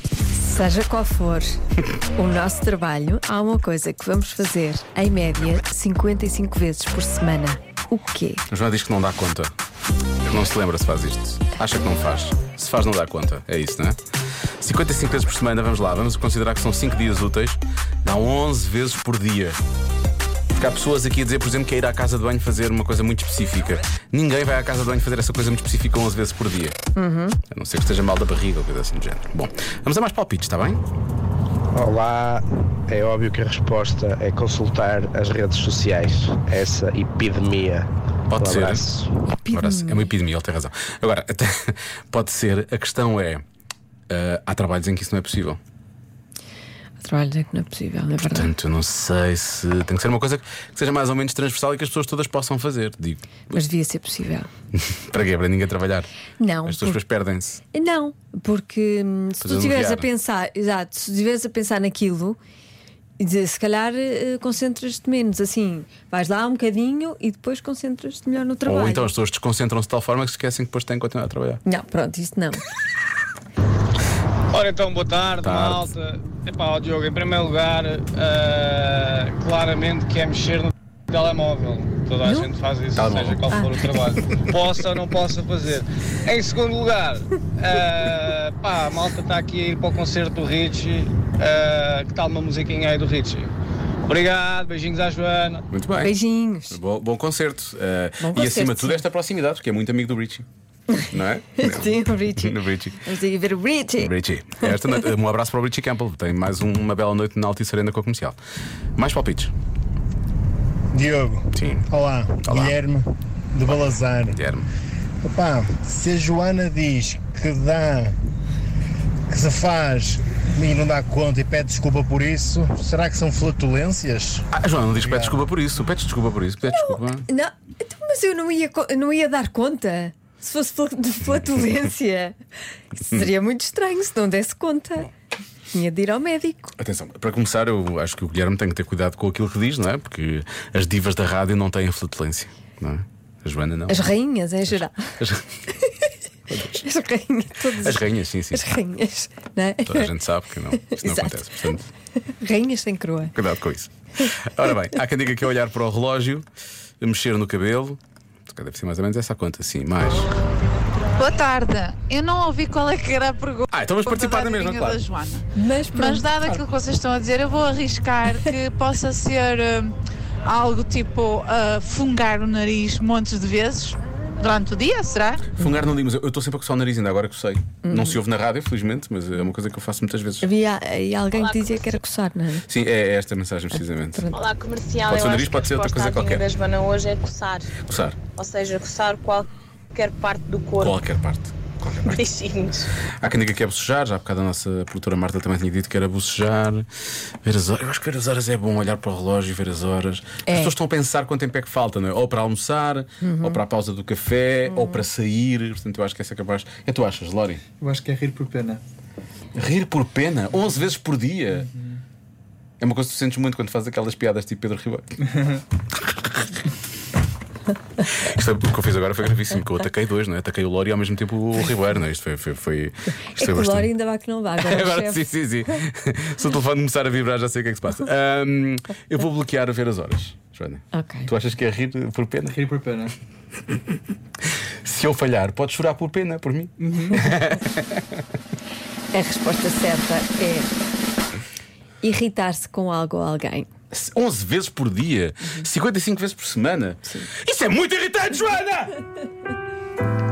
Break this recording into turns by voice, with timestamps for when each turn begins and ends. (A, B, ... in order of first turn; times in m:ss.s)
0:00.3-0:01.6 A
0:02.1-0:08.4 A
0:08.5-0:09.5 B
0:10.2-0:14.0 B
0:14.6-0:19.6 B
0:20.5-0:26.8 B
0:27.0-0:27.4 A
0:27.5-0:30.8 B
0:31.7-0:39.2 C
0:38.3-0:38.8 B
0:39.3-0:40.1 A
0:39.5-0:43.4 B
0:44.1-0:45.6 B
0:47.0-0:48.5 A
0:48.3-0:53.6 B
0:53.5-0:54.5 A
0:54.7-0:57.6 B
0:56.4-0:57.0 A
0:57.6-1:02.4 A
0:59.4-1:00.1 B
1:03.2-1:09.1 A
1:08.6-1:11.6 B
1:11.6-1:12.6 A
1:14.5-1:33.5 D
1:15.4-1:15.9 B
1:22.2-1:22.5 A
1:22.9-1:24.4 B
1:23.5-1:23.8 A
1:34.1-1:35.6 D
1:35.7-1:36.1 B
1:36.0-1:36.8 A
1:36.7-1:40.4 B
1:38.2-1:39.1 A
1:40.9-1:45.1 A
1:41.1-1:43.1 B
1:44.0-1:48.4 B
1:49.0-1:49.5 B
1:50.9-1:54.4 E
1:51.5-1:51.9 B
1:52.4-1:52.8 B
1:54.3-1:54.7 B
1:55.2-1:58.2 E
1:59.3-2:05.4 E
2:04.5-2:07.3 B
2:06.6-2:12.4 A
2:12.9-2:15.1 A
2:13.0-2:13.3 B
2:15.7-2:16.8 A
2:16.8-2:24.1 B
2:23.9-2:25.2 A
2:24.6-2:25.6 B
2:25.8-2:26.1 A
2:26.5-2:26.9 B
2:26.8-2:30.1 A
2:27.7-2:28.7 B
2:29.8-2:31.8 B
2:30.7-2:31.6 A
2:32.2-2:33.4 A
2:33.3-2:36.4 B
2:37.0-2:40.4 B
2:41.2-2:55.5 F
2:43.7-2:45.0 B
2:45.5-2:46.3 A
2:48.3-2:48.6 A
2:55.5-3:00.5 B
2:57.8-2:58.2 A
3:00.4-3:02.7 A
3:02.6-3:04.3 B
3:04.1-3:04.4 A
3:04.3-3:10.9 G
3:05.1-3:06.5 B
3:07.8-3:08.2 B
3:10.8-3:12.2 B
3:12.0-3:12.9 G
3:13.1-3:16.9 B
3:17.4-3:27.6 B
3:20.4-3:20.8 A
3:23.2-3:23.6 A
3:24.7-3:25.1 A
3:27.8-3:28.8 H
3:29.5-3:31.7 B
3:32.8-3:35.1 B
3:36.1-3:36.5 B
3:38.0-3:43.9 B
3:43.3-3:45.3 A
3:44.6-3:52.6 B
3:50.9-3:51.3 A
3:52.5-3:53.1 H
3:54.6-3:58.0 B
3:56.8-3:57.3 H
3:59.1-4:00.7 A
4:02.0-4:03.7 A
4:03.9-4:09.0 B
4:05.4-4:05.7 A
4:07.0-4:07.3 A